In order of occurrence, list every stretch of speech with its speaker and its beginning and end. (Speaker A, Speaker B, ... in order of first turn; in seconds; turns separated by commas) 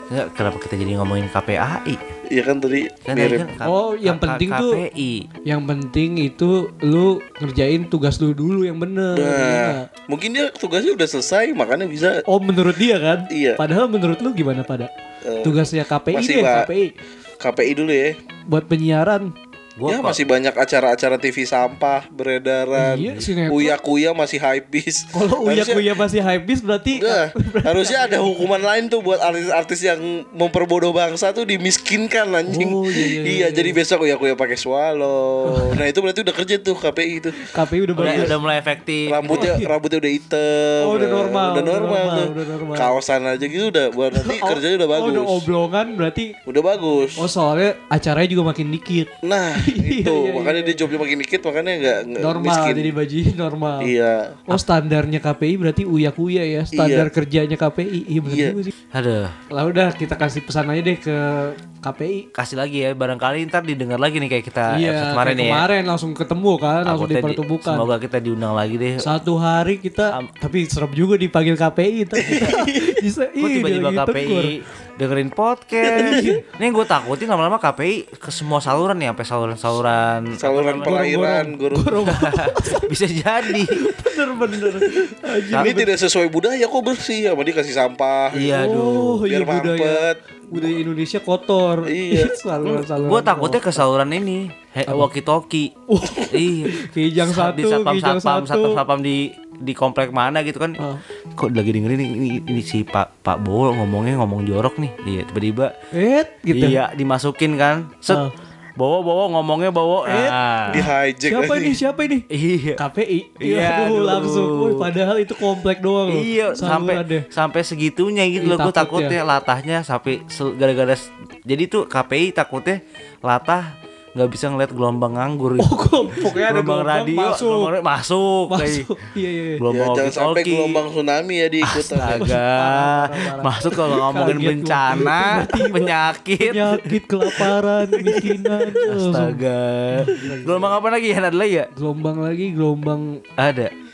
Speaker A: 0.1-2.0, Speaker B: 2.3-3.5, Speaker A: 3.1-5.3, Speaker C: 3.6-4.8, Speaker C: 5.5-9.9, Speaker B: 9.1-12.2, Speaker C: 12.3-14.9, Speaker B: 13.3-13.6, Speaker B: 15.2-16.7, Speaker C: 15.4-16.9, Speaker B: 17.4-18.2, Speaker C: 18.5-19.3, Speaker A: 19.8-20.2, Speaker B: 19.9-25.9, Speaker C: 22.8-23.8, Speaker C: 25.1-28.5, Speaker B: 26.9-37.4, Speaker C: 32.5-33.7, Speaker C: 35.5-35.8, Speaker C: 37.4-38.3, Speaker B: 38.0-38.3, Speaker A: 38.0-39.5, Speaker B: 39.1-45.5, Speaker C: 39.3-39.7, Speaker C: 40.8-42.9, Speaker C: 44.2-46.4, Speaker B: 46.5-47.2, Speaker C: 47.2-50.8, Speaker B: 49.2-52.9, Speaker C: 52.2-53.9, Speaker B: 53.8-54.4, Speaker C: 54.5-58.7, Speaker B: 56.7-57.1, Speaker B: 58.2-58.6, Speaker A: 58.9-59.4, Speaker C: 59.5-62.3, Speaker A: 62.4-65.7, Speaker C: 64.7-67.9, Speaker A: 66.8-69.0, Speaker C: 69.0-74.5, Speaker B: 72.2-72.8, Speaker A: 73.4-81.1, Speaker B: 75.9-76.2, Speaker C: 75.9-76.4, Speaker B: 80.4-82.1, Speaker C: 80.8-82.9, Speaker A: 82.1-83.8, Speaker C: 83.5-85.9, Speaker B: 84.8-88.6, Speaker A: 88.3-89.2, Speaker C: 88.5-93.8, Speaker B: 89.2-90.2, Speaker B: 91.8-92.4, Speaker A: 92.7-95.7, Speaker C: 95.9-98.8, Speaker A: 96.3-100.8, Speaker A: 101.3-105.7, Speaker C: 105.9-106.8, Speaker A: 106.5-108.2, Speaker C: 108.1-108.3, Speaker A: 108.8-110.9, Speaker C: 110.1-110.4, Speaker B: 110.7-111.8, Speaker C: 111.3-112.3, Speaker A: 112.3-112.8, Speaker C: 112.8-117.2, Speaker A: 113.4-114.9, Speaker A: 116.1-128.9, Speaker C: 118.4-119.2, Speaker C: 125.6-127.7, Speaker C: 128.5-129.6, Speaker A: 129.6-130.8, Speaker B: 129.7-132.3, Speaker A: 131.6-136.9, Speaker C: 132.2-139.4, Speaker A: 138.0-141.7, Speaker C: 139.9-140.8, Speaker C: 141.8-143.2, Speaker A: 143.4-143.7